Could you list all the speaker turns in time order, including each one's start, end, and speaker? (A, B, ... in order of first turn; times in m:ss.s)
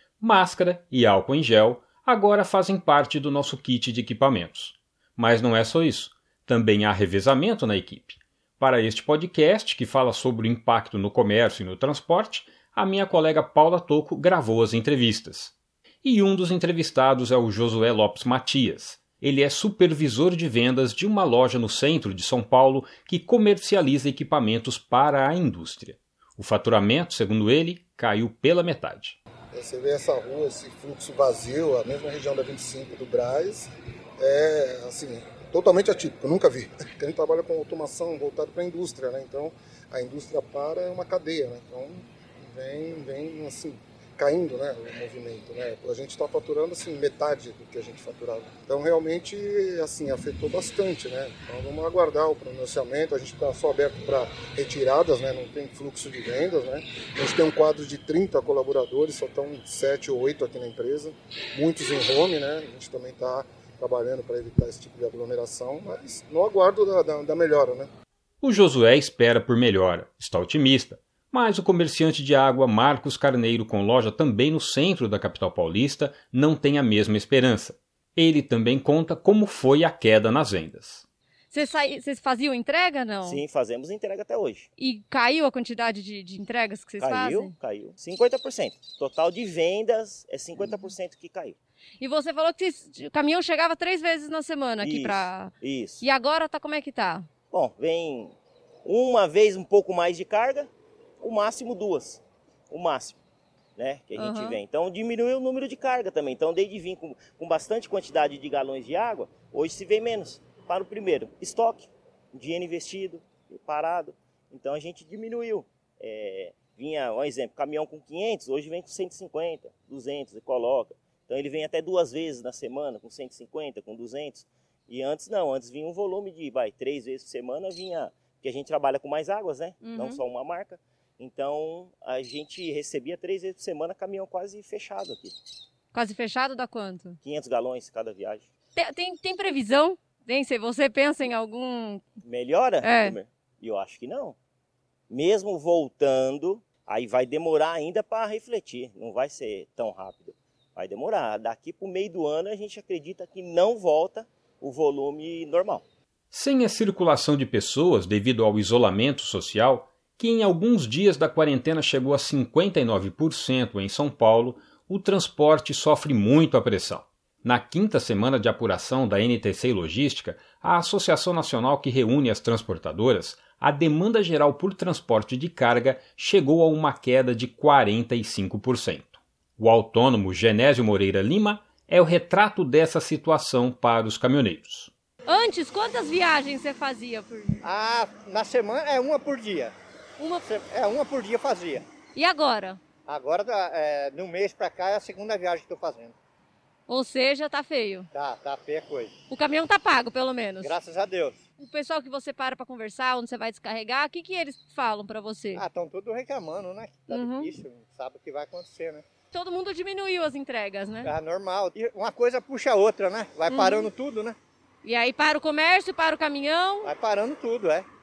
0:00.2-0:29.2 A
0:29.5-1:07.9 B
1:08.4-1:21.1 A
1:21.5-1:23.4 C
1:23.2-1:24.7 D
1:24.8-1:27.6 C
1:27.0-1:31.6 D
1:32.0-1:37.3 C
1:34.8-1:36.0 D
1:37.5-1:43.2 D
1:43.8-2:15.4 D
1:44.2-1:44.6 C
2:09.8-2:10.2 C
2:15.9-2:17.2 C
2:17.2-2:18.5 D
2:18.8-2:22.0 C
2:22.2-2:24.4 D
2:22.8-2:23.2 C
2:25.1-2:35.8 D
2:36.3-3:04.9 A
3:05.3-3:07.6 C
3:07.6-3:09.8 E
3:10.2-3:10.5 C
3:10.4-3:11.9 E
3:12.2-3:12.8 C
3:13.1-3:16.2 E
3:16.9-3:18.1 C
3:18.1-3:19.2 E
3:19.3-3:20.8 C
3:20.6-3:21.4 E
3:21.6-3:25.6 C
3:25.6-3:29.0 E
3:27.1-3:27.6 C
3:29.3-3:31.1 C
3:31.0-3:34.4 E
3:33.5-3:33.9 C
3:34.8-3:36.9 C
3:36.8-3:37.9 E